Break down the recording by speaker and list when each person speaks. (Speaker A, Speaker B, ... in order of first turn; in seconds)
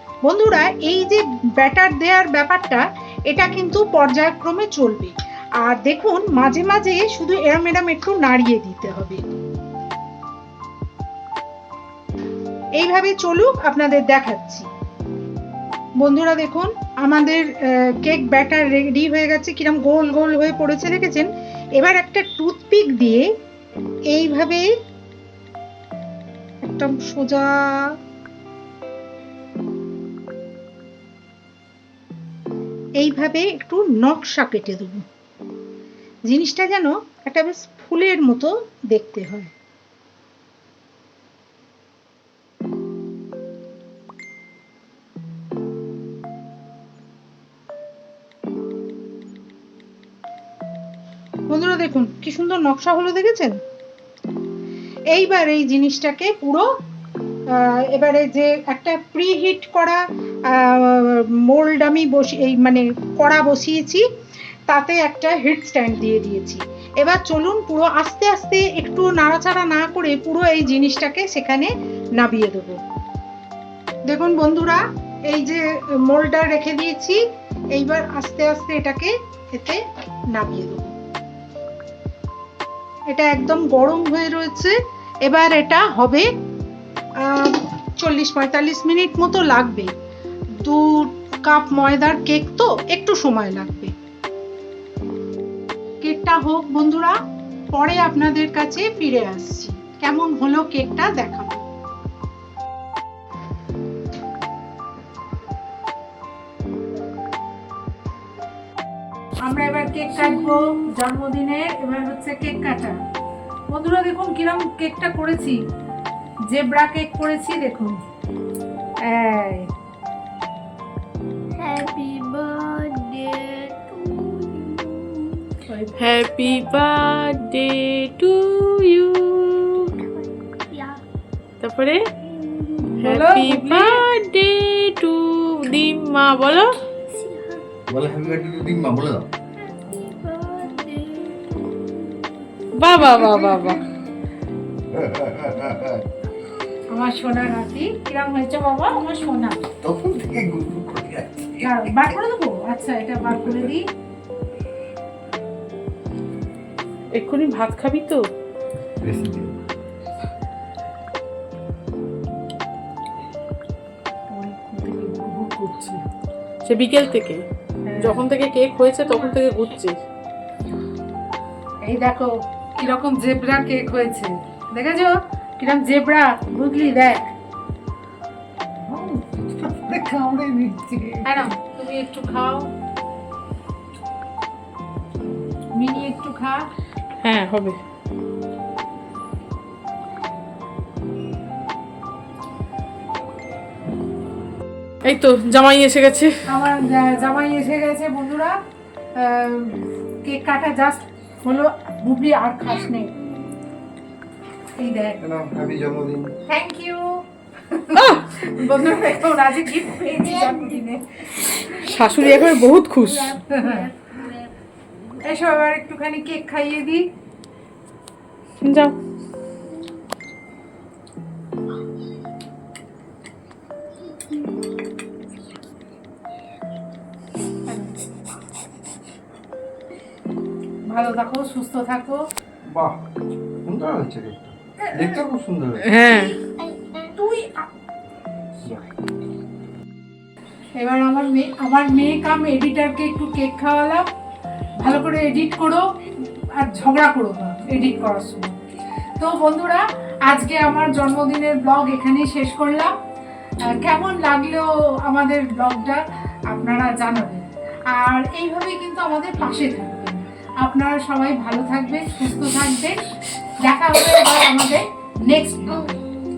Speaker A: 0.2-9.4, 12.8-14.7, 16.0-23.3, 24.1-24.7, 26.6-27.9, 33.0-35.0, 36.3-39.5, 51.5-53.6, 55.1-56.7, 57.5-64.0, 64.7-72.8, 74.1-77.2, 77.8-79.8, 80.3-80.9, 83.1-86.3, 87.2-89.9, 90.6-93.9, 96.0-97.2, 97.7-101.6, 109.4-113.0, 113.7-115.6, 116.5-118.0, 119.1-119.7, 125.7-126.5, 132.8-134.0, 146.9-149.7, 151.6-153.9, 164.3-166.0, 167.9-168.3, 171.8-177.3, 181.2-182.7, 185.8-186.6, 196.5-198.6, 199.2-203.2, 204.8-205.2, 206.5-212.5, 213.2-214.0, 215.2-217.1, 227.7-228.0, 230.9-232.2, 237.2-237.7, 240.8-244.1, 244.8-248.6, 249.2-252.9, 253.7-263.1, 263.6-266.1
Speaker B: 121.6-125.6, 130.2-131.0, 132.5-132.8, 137.1-137.8, 139.7-142.5, 213.5-214.4, 236.4-237.1
Speaker C: 126.0-130.0, 131.6-132.0, 133.0-136.7, 142.8-143.8, 157.1-158.2, 166.7-167.4, 168.0-170.0, 187.2-187.8, 195.1-196.4, 207.9-208.3, 211.7-213.4, 218.6-219.0, 235.8-236.4
Speaker D: 137.9-139.3, 143.1-143.7, 144.9-146.0, 149.8-152.1, 153.4-153.7, 159.0-159.5, 178.9-181.5, 205.2-206.3, 232.7-233.0, 233.6-236.0